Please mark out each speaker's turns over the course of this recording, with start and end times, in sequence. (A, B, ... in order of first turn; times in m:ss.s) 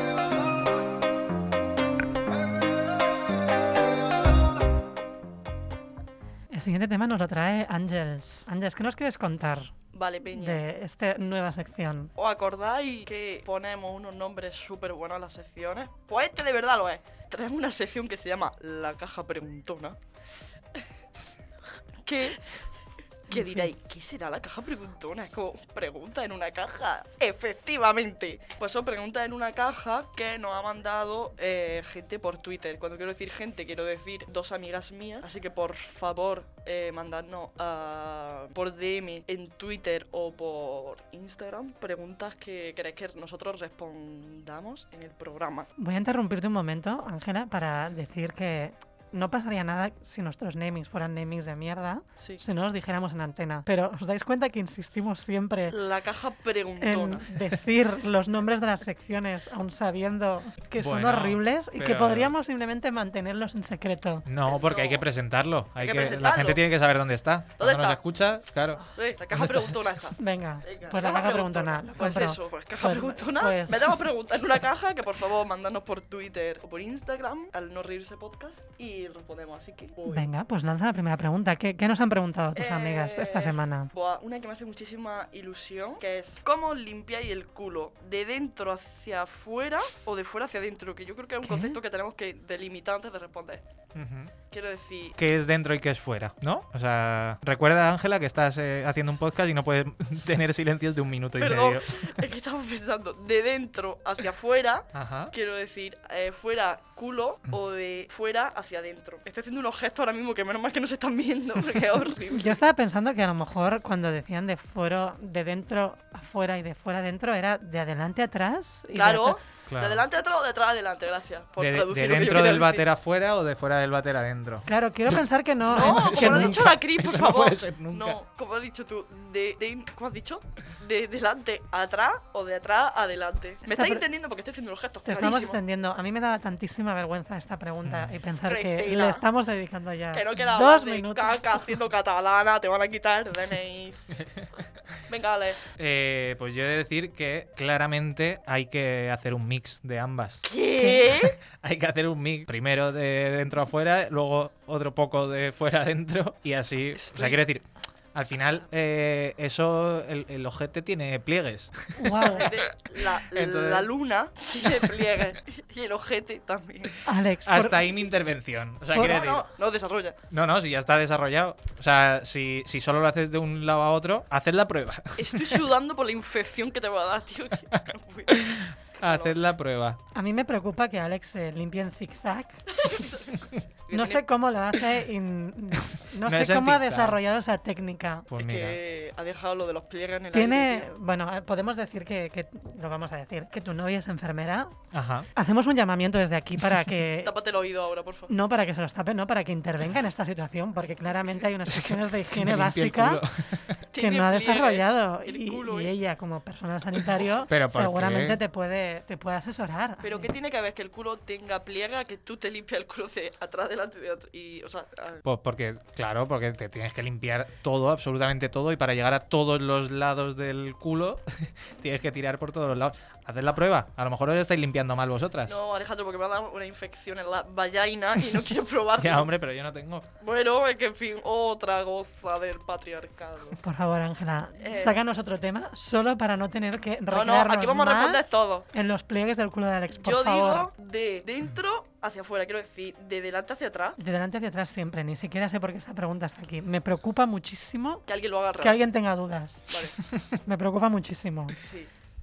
0:06.5-0:09.7 A
0:09.9-0:10.6 B
0:10.3-0:12.1 A
0:12.2-0:20.0 B
0:22.0-0:22.5 B
0:23.3-0:45.7 B
0:23.3-0:23.7 A
0:45.8-0:55.8 A
0:55.7-0:57.3 B
0:56.8-1:04.2 A
1:00.8-1:02.3 C
1:04.2-1:09.9 C
1:04.4-1:05.1 B
1:05.8-1:06.6 B
1:07.6-1:08.0 B
1:08.9-1:20.3 B
1:10.2-1:14.0 A
1:20.0-1:23.9 A
1:22.5-1:33.6 B
1:31.4-1:31.8 A
1:33.9-1:34.3 C
1:34.5-1:35.2 B
1:35.2-1:42.0 C
1:41.4-1:52.6 B
1:44.9-1:45.3 C
1:52.3-1:59.4 A
1:58.9-2:02.8 B
1:59.7-2:00.0 C
2:01.6-2:05.2 C
2:04.6-2:06.7 A
2:05.7-2:15.6 B
2:05.7-2:08.2 C
2:13.6-2:14.0 A
2:15.0-2:21.8 A
2:17.8-2:18.1 C
2:18.4-2:19.2 B
2:20.1-2:24.2 B
2:24.2-2:24.5 C
2:25.1-2:25.6 B
2:25.8-2:30.4 C
2:30.4-2:31.4 B
2:30.8-2:31.2 A
2:31.5-2:43.9 C
2:36.9-2:37.4 B
2:42.0-2:42.5 A
2:42.2-2:47.0 B
2:44.6-2:44.9 C
2:47.0-2:47.9 A
2:47.4-2:49.4 C
2:48.9-2:50.2 B
2:50.3-2:55.6 C
2:55.2-2:59.4 B
2:57.7-3:00.0 C
3:00.1-3:03.0 A
3:02.7-3:04.2 B
3:03.9-3:08.3 A
3:06.2-3:07.2 C
3:08.3-3:08.8 C
3:08.4-3:10.9 B
3:10.3-3:14.7 A
3:14.9-3:15.3 C
3:15.3-3:17.3 A
3:17.2-3:18.3 B
3:18.3-3:23.2 A
3:21.7-3:23.8 C
3:23.9-3:25.9 B
3:24.0-3:30.3 A
3:27.5-3:28.4 C
3:30.0-3:35.2 B
3:35.2-3:45.5 C
3:45.5-3:49.3 B
3:49.0-3:50.1 C
3:50.2-3:53.6 B
3:53.6-4:00.7 A
3:54.6-3:55.0 B
3:57.1-3:58.7 B
3:59.9-4:04.0 B
4:04.0-4:08.0 A
4:08.1-4:08.8 B
4:08.6-4:09.8 A
4:09.7-4:10.0 B
4:10.4-4:11.6 A
4:11.6-4:11.9 B